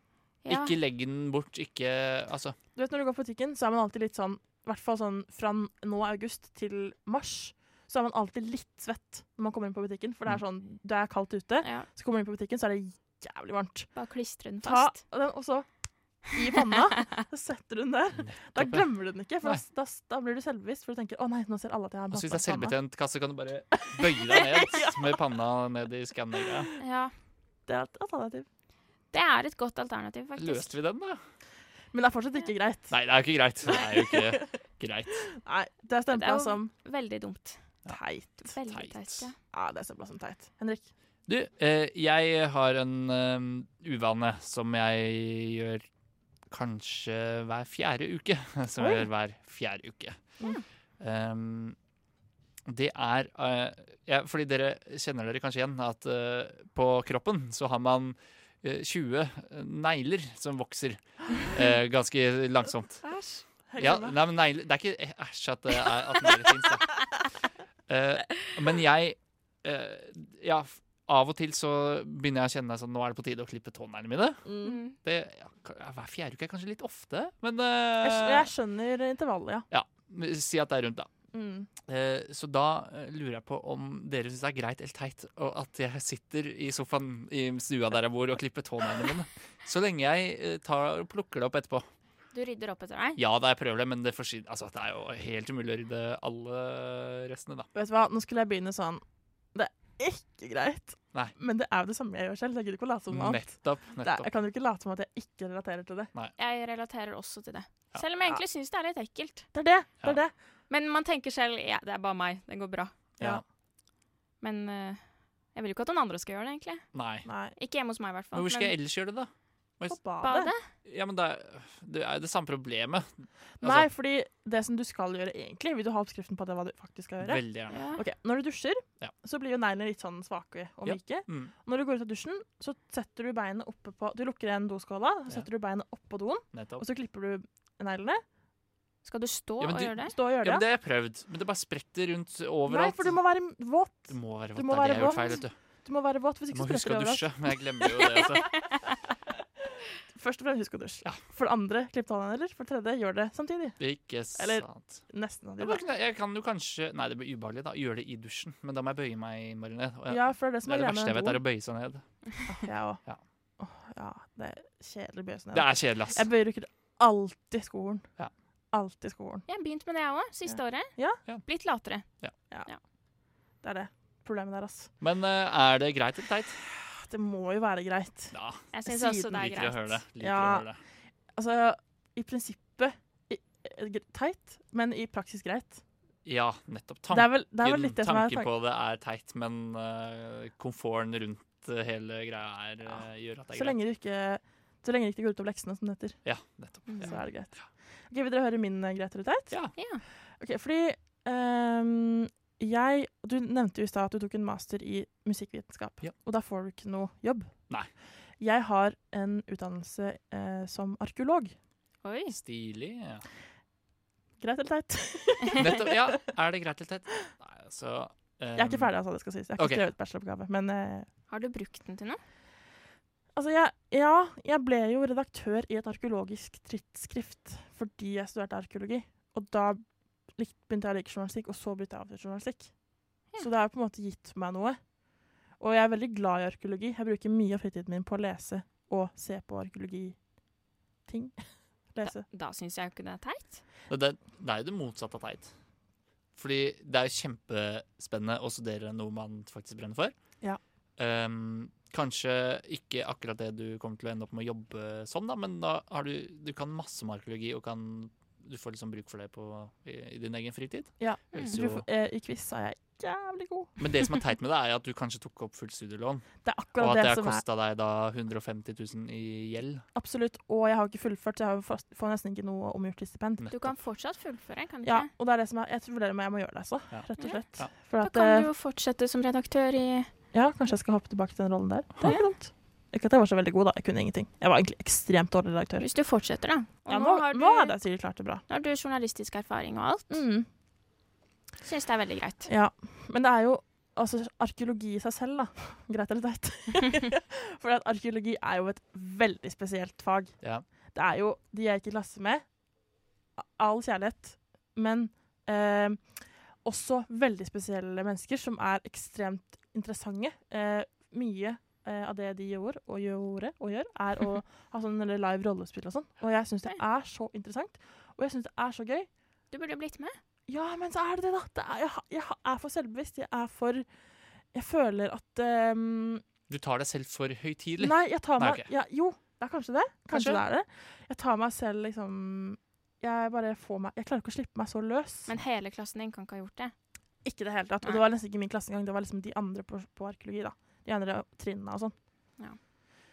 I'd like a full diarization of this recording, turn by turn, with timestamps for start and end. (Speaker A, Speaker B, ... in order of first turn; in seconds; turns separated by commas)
Speaker A: 0.4-0.7, Speaker B: 0.5-2.5, Speaker C: 2.7-13.9, Speaker A: 11.6-11.9, Speaker A: 13.9-15.0, Speaker C: 14.6-15.7, Speaker C: 16.2-22.8, Speaker B: 18.2-18.9, Speaker B: 22.1-26.7, Speaker C: 24.5-25.0, Speaker A: 26.8-27.1, Speaker C: 27.7-28.4, Speaker A: 29.1-30.7, Speaker B: 30.4-31.2, Speaker C: 31.9-32.9, Speaker B: 32.9-35.2, Speaker C: 33.7-34.4, Speaker C: 35.4-36.7, Speaker A: 36.1-37.6, Speaker C: 37.9-38.5, Speaker A: 38.4-39.4, Speaker B: 38.7-39.3, Speaker C: 39.5-40.9, Speaker B: 41.3-45.9, Speaker B: 46.5-50.2, Speaker C: 48.8-49.0, Speaker B: 51.0-51.8, Speaker B: 52.6-63.0, Speaker A: 63.0-63.4, Speaker C: 63.7-64.2, Speaker B: 63.8-67.0, Speaker B: 67.9-74.4, Speaker C: 74.4-74.8, Speaker A: 74.6-75.0, Speaker B: 75.0-78.5, Speaker C: 78.0-79.7, Speaker B: 79.7-81.1, Speaker C: 81.3-81.7, Speaker B: 81.8-91.9, Speaker A: 92.3-93.2, Speaker B: 93.2-97.7, Speaker C: 97.7-99.0, Speaker C: 99.5-106.1, Speaker B: 103.1-104.3, Speaker A: 106.4-109.5, Speaker C: 109.5-110.3, Speaker A: 110.7-112.9, Speaker A: 114.4-115.0, Speaker A: 115.5-116.9, Speaker B: 116.9-117.3, Speaker C: 117.2-117.5, Speaker A: 117.5-118.7, Speaker B: 118.3-120.0, Speaker C: 119.9-120.5, Speaker A: 120.2-120.6, Speaker B: 120.8-123.9, Speaker C: 123.6-127.4, Speaker B: 127.2-127.9, Speaker A: 127.7-128.0, Speaker C: 127.9-138.2, Speaker B: 130.8-131.5, Speaker B: 136.5-136.8, Speaker A: 139.0-140.1, Speaker B: 139.6-143.2, Speaker C: 140.0-140.6, Speaker C: 142.7-147.3, Speaker B: 144.1-145.5, Speaker B: 146.5-148.6, Speaker C: 150.1-153.8, Speaker B: 153.8-155.0, Speaker C: 154.3-155.8, Speaker B: 155.6-162.0, Speaker C: 160.1-161.4, Speaker C: 162.5-163.0, Speaker C: 163.6-168.0, Speaker B: 165.5-166.3, Speaker C: 168.7-169.4, Speaker A: 169.5-170.9, Speaker C: 170.5-171.2, Speaker A: 171.4-172.1, Speaker C: 173.6-174.9, Speaker B: 175.0-176.6, Speaker C: 176.7-178.3, Speaker B: 178.3-178.7, Speaker A: 178.7-180.0, Speaker C: 178.9-179.4, Speaker B: 179.3-180.8, Speaker C: 180.2-180.7, Speaker C: 181.3-185.8, Speaker B: 186.2-193.8, Speaker C: 187.1-188.5, Speaker C: 192.8-196.2, Speaker B: 196.2-197.1, Speaker A: 196.9-197.2, Speaker C: 197.0-197.6, Speaker C: 198.1-199.5, Speaker A: 199.8-200.0, Speaker C: 200.4-207.5, Speaker C: 208.4-211.5, Speaker A: 212.0-212.3, Speaker B: 212.3-213.2, Speaker C: 214.4-216.1, Speaker B: 215.5-218.9, Speaker C: 218.5-221.1, Speaker B: 219.6-219.8, Speaker A: 221.3-222.2, Speaker C: 223.3-229.8, Speaker C: 230.3-232.7, Speaker C: 233.4-234.8, Speaker C: 235.6-240.2, Speaker C: 241.1-241.3, Speaker C: 241.9-242.2, Speaker A: 242.0-243.6, Speaker B: 243.9-245.5, Speaker B: 246.3-250.1, Speaker B: 251.0-261.8, Speaker C: 261.0-263.7, Speaker B: 263.8-269.8, Speaker C: 266.4-267.4, Speaker C: 269.9-273.4, Speaker B: 273.4-273.8, Speaker A: 273.5-275.1, Speaker C: 274.8-278.5, Speaker B: 276.9-277.7, Speaker A: 278.0-280.1, Speaker C: 280.3-285.9, Speaker A: 285.8-287.8, Speaker C: 286.9-288.4, Speaker A: 288.5-290.2, Speaker C: 290.1-290.4, Speaker A: 291.6-292.5, Speaker C: 292.4-300.4, Speaker C: 300.9-302.4, Speaker C: 303.4-306.0, Speaker C: 306.6-319.1, Speaker A: 319.5-320.2, Speaker C: 320.5-323.8, Speaker C: 324.5-326.2, Speaker B: 326.5-328.7, Speaker C: 327.8-335.3, Speaker B: 330.1-330.4, Speaker A: 335.3-336.7, Speaker C: 337.2-341.9